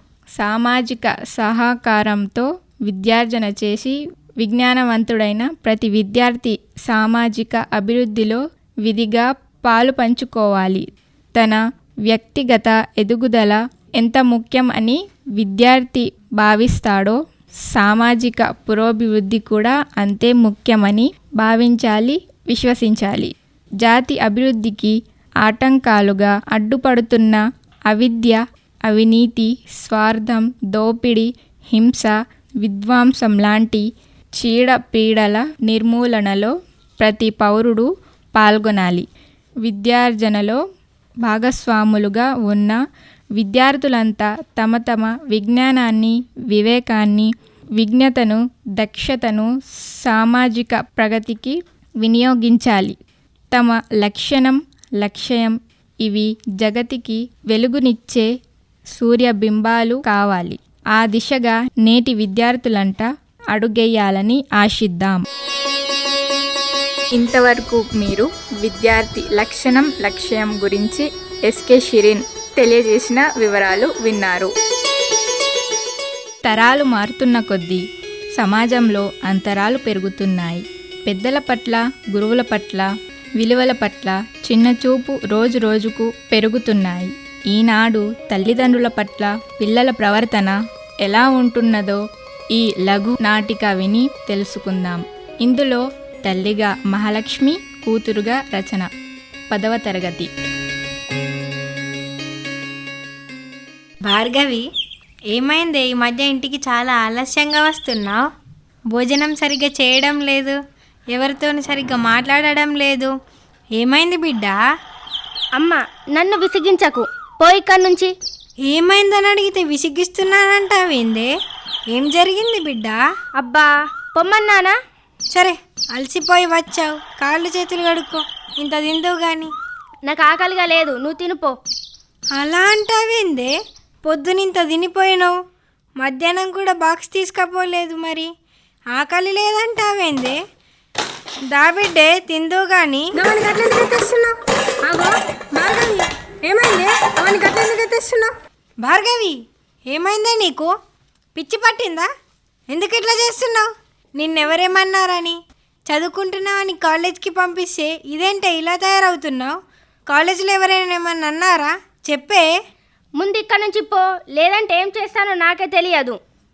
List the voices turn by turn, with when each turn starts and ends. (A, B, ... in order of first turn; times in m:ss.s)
0:00.4-0:17.2 A
0:17.7-0:33.8 A
0:34.4-0:39.1 A
0:39.6-0:40.6 A
0:41.2-0:42.8 A
0:43.4-0:49.5 A
0:50.0-0:53.0 A
0:53.5-0:58.3 A
0:58.9-1:05.2 A
1:07.1-1:14.5 A
1:16.5-1:17.8 A
1:18.4-1:22.9 A
1:23.4-1:32.0 A
1:32.5-1:38.9 A
1:39.5-1:40.3 A
1:44.0-1:44.6 B
1:45.3-1:48.2 B
1:48.9-1:50.6 B
1:51.1-1:53.1 B
1:53.8-1:54.6 B
1:55.6-1:58.1 C
1:58.6-2:01.3 B
2:01.9-2:03.0 B
2:03.4-2:04.8 C
2:05.3-2:09.5 B
2:10.1-2:11.6 C
2:12.4-2:13.5 B
2:14.0-2:15.4 B
2:16.0-2:18.3 B
2:18.9-2:20.4 B
2:21.5-2:24.3 B
2:24.9-2:28.2 B
2:28.8-2:30.7 B
2:31.4-2:32.1 B
2:32.7-2:35.4 B
2:35.9-2:39.6 B
2:40.1-2:42.5 B
2:43.2-2:46.2 C